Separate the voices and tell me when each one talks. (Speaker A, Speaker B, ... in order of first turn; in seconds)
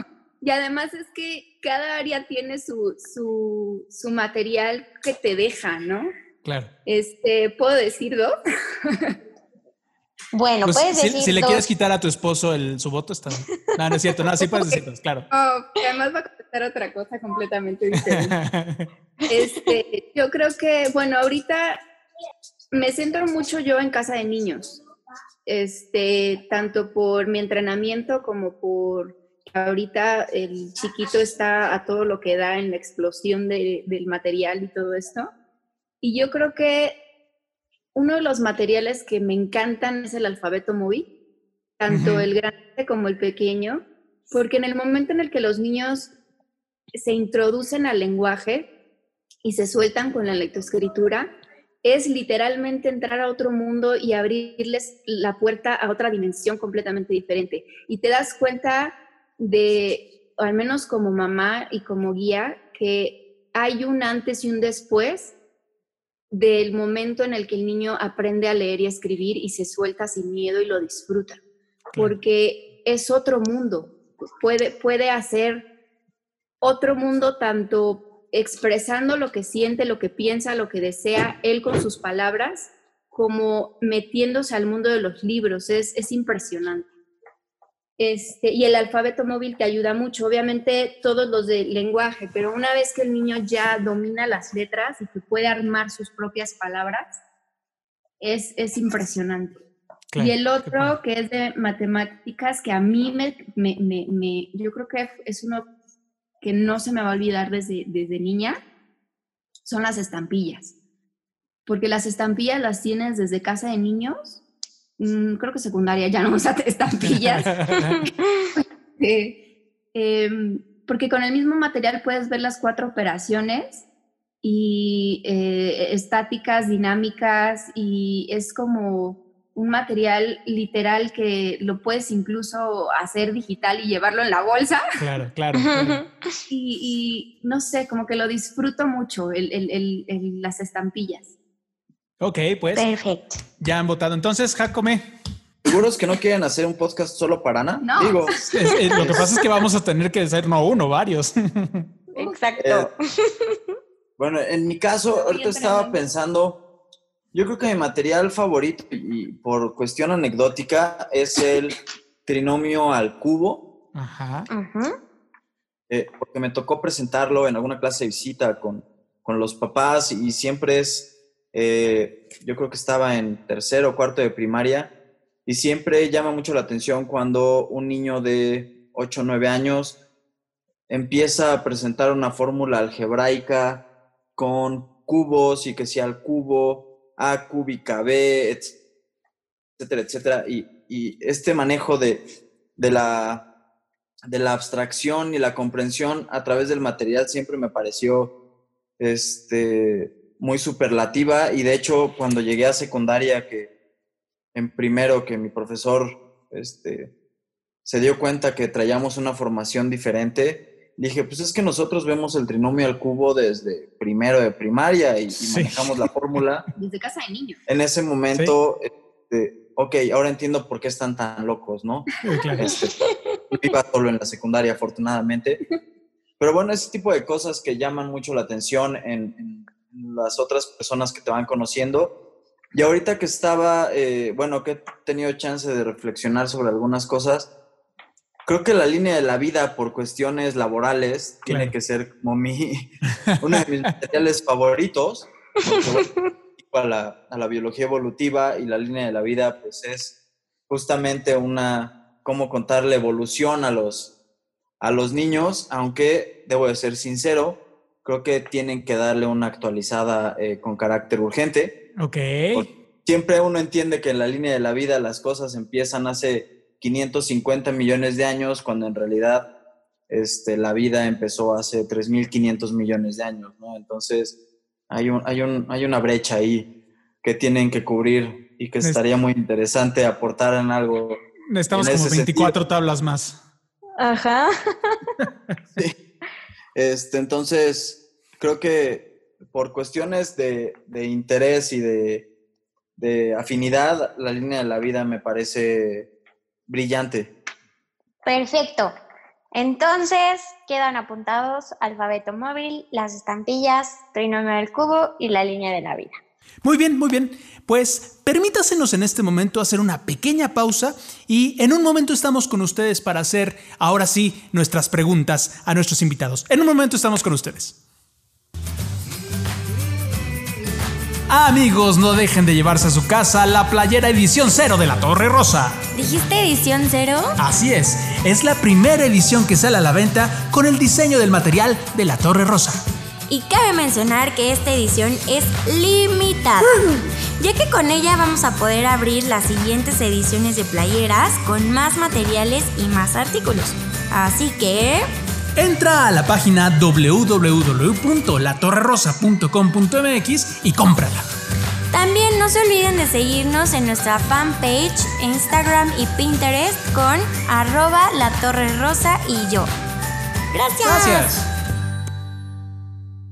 Speaker A: 0.4-6.1, 6.8-8.3, 8.8-9.1, 15.3-18.3, 19.3-21.8, 22.7-24.8, 25.4-35.3, 36.0-37.0, 37.9-41.1, 41.8-46.1, 46.9-48.7, 49.4-51.3, 51.8-65.3, 66.3-71.4, 72.0-75.7, 76.6-86.9, 88.0-97.2, 98.2-99.6, 100.2-105.7, 106.4-108.6, 109.6-110.7, 111.7-114.4, 115.0-117.9, 118.5-119.3, 119.9-123.8, 124.4-134.8, 136.5-141.3, 147.8-148.2, 155.2-156.0, 216.8-217.6
Speaker B: 6.4-6.7, 10.6-15.2, 17.9-18.9, 41.9-42.3, 100.1-101.0, 117.0-118.0, 135.0-136.0, 142.2-142.8, 143.6-145.1, 148.4-151.8, 163.9-164.5, 215.4-215.8, 222.2-222.7, 241.5-241.7, 262.0-262.7, 281.5-283.4, 306.6-317.8, 321.3-325.8, 327.4-332.8, 345.6-351.2, 360.8-361.5
Speaker C: 10.3-11.6, 19.3-19.6, 135.5-136.1, 142.7-143.4, 149.1-149.4, 152.1-153.8, 164.5-164.9, 245.6-246.1, 284.0-285.0, 298.2-298.9, 299.5-306.1
Speaker D: 145.6-148.3, 148.9-149.3, 152.6-152.9, 154.2-156.6, 157.3-163.6, 165.9-174.9, 175.4-180.0, 180.9-183.8, 184.3-188.7, 189.8-192.2, 192.8-193.4, 194.3-198.3, 199.0-203.7, 204.5-207.1, 207.8-216.6, 217.7-222.1, 222.6-222.9, 223.5-225.6, 226.4-232.1, 232.7-237.5, 238.4-250.1, 250.7-254.1, 254.8-261.8, 262.5-269.5, 270.1-274.3, 274.9-276.7, 277.2-282.6, 286.7-292.2, 293.0-296.1, 296.7-297.3
Speaker E: 325.9-327.4, 333.3-336.8, 337.4-345.1, 351.9-359.7, 360.5-361.3